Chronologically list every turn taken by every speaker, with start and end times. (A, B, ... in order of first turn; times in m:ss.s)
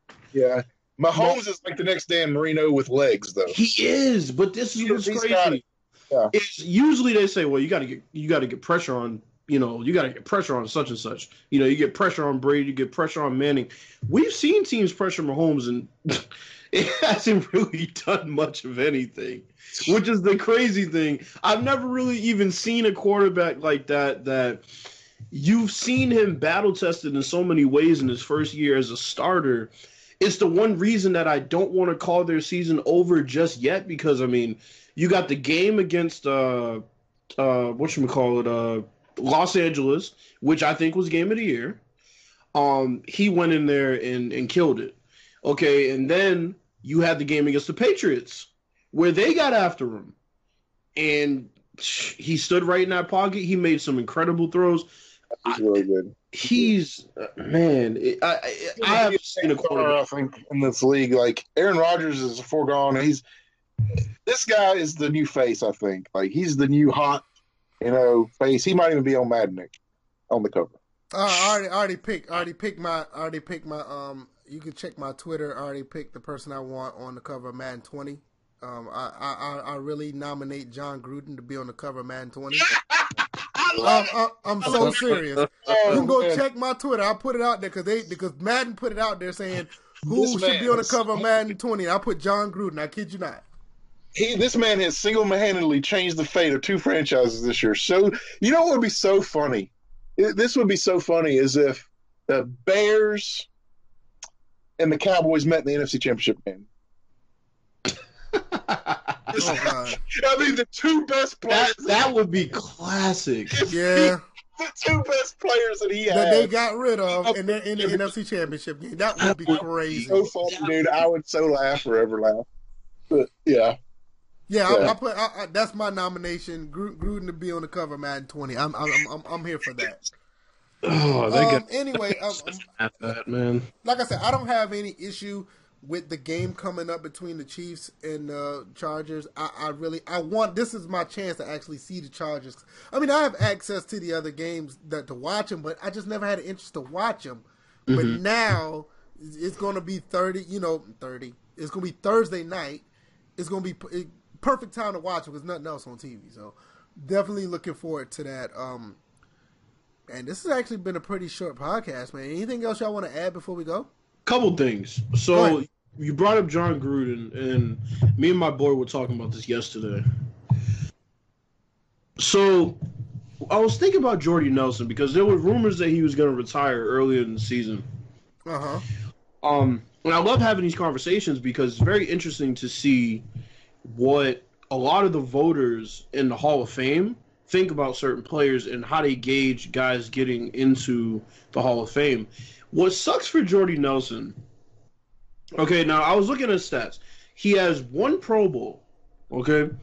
0:00.3-0:03.6 A
0:03.5-0:05.6 B
0:04.8-0:06.3 A
0:06.3-0:24.7 B
0:25.3-0:36.8 B
0:37.4-0:41.8 B
0:42.5-0:50.2 B
0:51.0-0:54.9 B
0:55.4-0:56.7 A
0:56.3-0:59.9 B
0:58.8-1:03.2 A
1:04.2-1:07.2 A
1:07.8-1:09.7 A
1:10.3-1:10.8 A
1:11.1-1:22.7 C
1:22.9-1:26.4 A
1:23.8-1:33.4 C
1:24.6-1:26.0 B
1:30.0-1:31.5 A
1:34.1-1:43.5 A
1:44.8-1:46.7 A
1:48.3-1:49.5 B
1:49.3-1:52.1 A
1:49.4-1:50.0 C
1:51.5-1:54.1 B
1:53.5-1:54.0 A
1:53.7-1:54.2 C
1:54.6-1:56.5 A
1:56.1-2:00.2 C
1:57.1-1:58.1 A
1:59.2-2:00.7 B
2:00.1-2:02.4 A
2:03.1-2:03.8 A
2:04.5-2:10.0 C
2:04.7-2:04.9 A
2:10.8-2:13.7 B
2:11.3-2:12.6 C
2:13.8-2:32.8 C
2:27.9-2:28.2 B
2:33.4-2:39.0 C
2:40.1-2:43.9 C
2:44.2-2:50.0 B
2:45.3-2:45.6 C
2:52.2-2:52.8 B
2:53.5-2:57.8 B
2:58.5-2:58.8 C
2:59.4-3:03.2 B
3:03.8-3:14.4 B
3:15.6-3:19.7 B